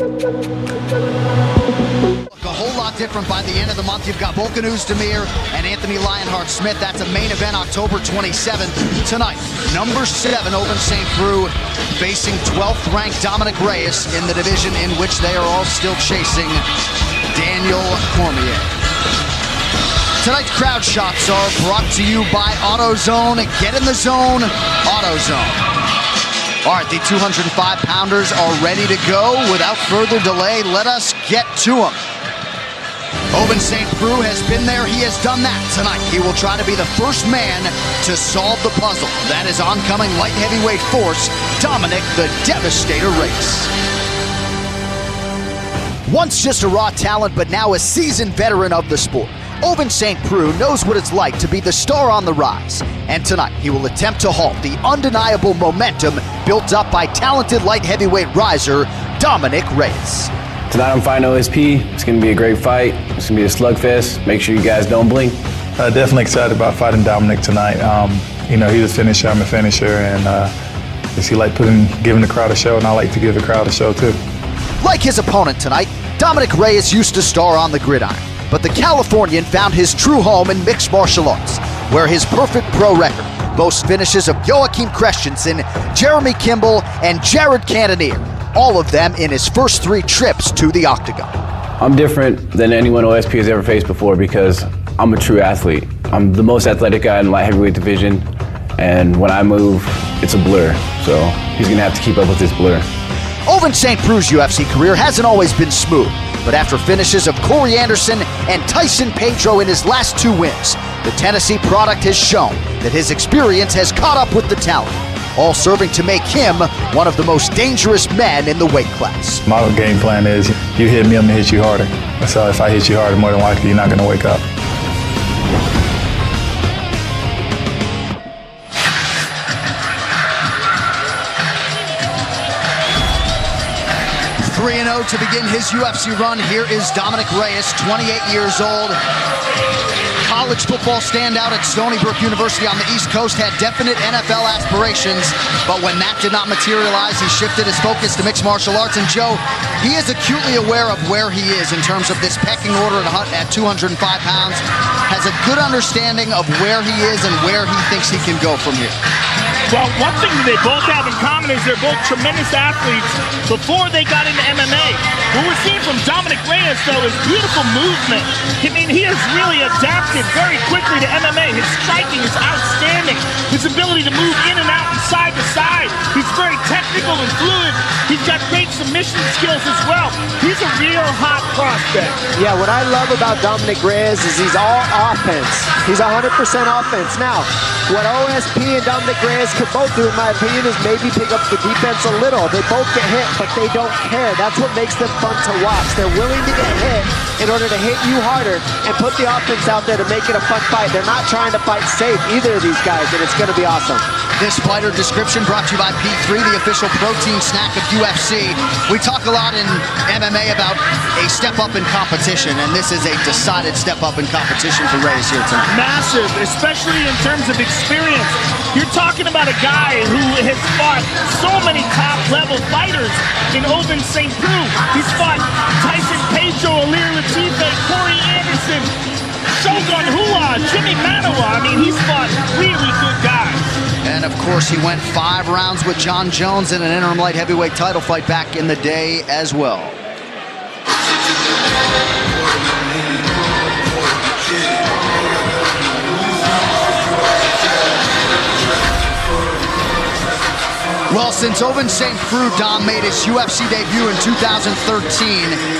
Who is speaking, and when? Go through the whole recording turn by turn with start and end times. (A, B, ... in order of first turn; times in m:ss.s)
0:02.4-0:16.6 A
0:17.3-0:18.7 A
0:20.2-0:25.6 A
0:26.6-0:32.0 A
0:33.3-0:43.7 A
0:46.1-1:00.3 A
1:00.7-1:05.4 B
1:05.8-1:10.5 C
1:11.2-1:14.2 C
1:14.8-1:31.3 A
1:31.8-1:42.9 B
1:43.5-1:59.4 A
1:59.4-2:04.4 C
2:14.4-2:19.0 A
2:20.2-2:39.0 A
2:39.7-3:02.2 D
3:02.3-3:24.0 E
3:24.4-3:35.7 A
3:35.7-3:48.9 D
3:49.6-3:53.6 D
3:54.0-4:00.0 A
4:11.1-4:15.6 A